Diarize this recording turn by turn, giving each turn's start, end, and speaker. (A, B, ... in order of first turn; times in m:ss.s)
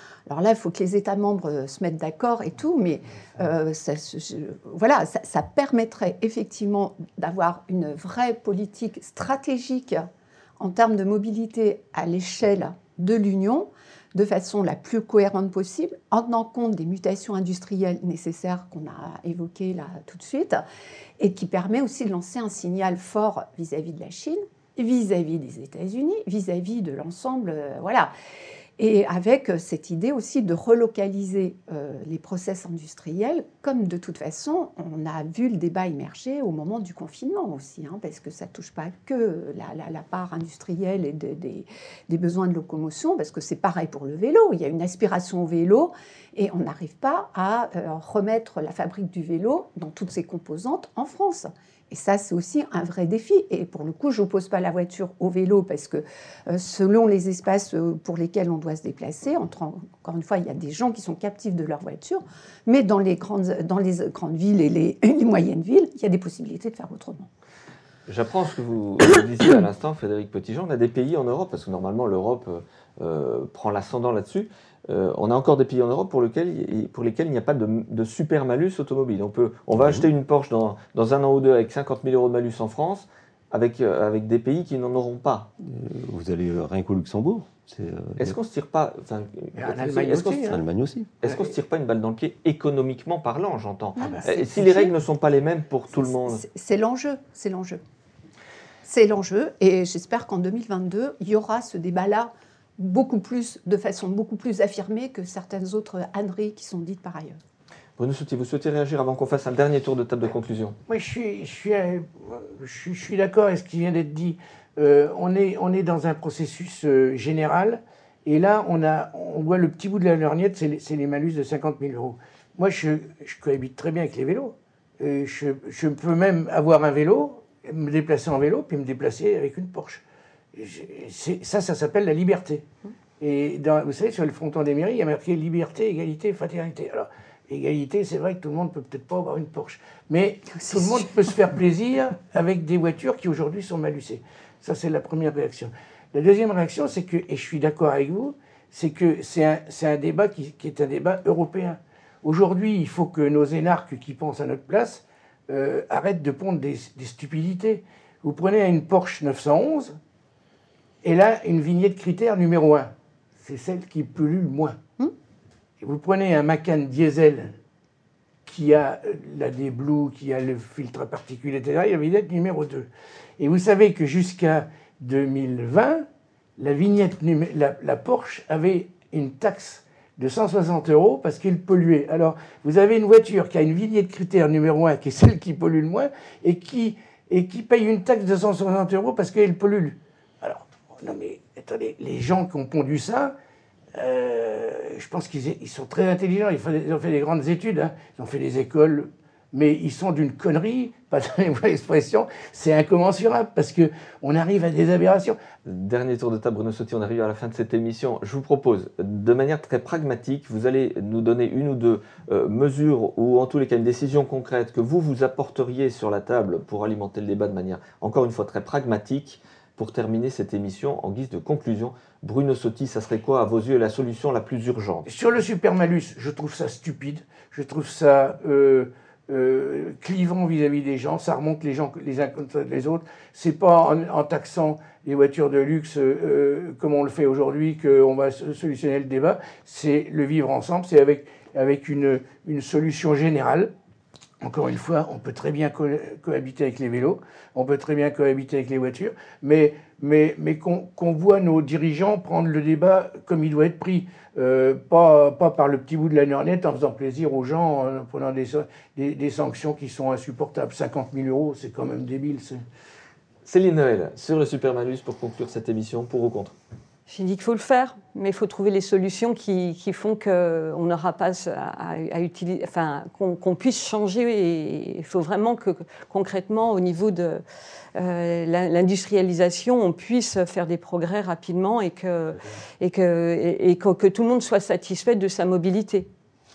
0:00.3-0:20.6 A
0:21.2-0:28.1 A
0:28.8-1:07.3 A
1:08.1-1:25.5 B
1:25.6-1:28.4 C
1:28.2-1:30.6 B
1:29.6-1:30.6 D
1:30.4-1:31.1 C
1:31.2-1:36.4 B
1:31.2-1:31.5 D
1:34.0-1:34.4 D
1:34.0-1:34.9 A
1:36.0-1:37.8 A
1:38.8-1:47.4 A
1:48.0-1:50.8 B
1:50.9-2:10.0 D
2:10.5-2:12.6 D
2:13.2-2:40.0 D
2:20.6-2:21.0 A
2:41.0-2:44.8 D
2:45.8-2:47.6 D
2:48.4-2:56.0 D
2:56.6-3:13.3 D
3:13.9-3:25.4 D
3:25.6-3:45.0 B
3:45.0-4:03.7 D
4:04.4-4:22.6 D
4:23.4-4:26.5 B
4:27.1-4:37.4 E
4:37.9-4:46.1 E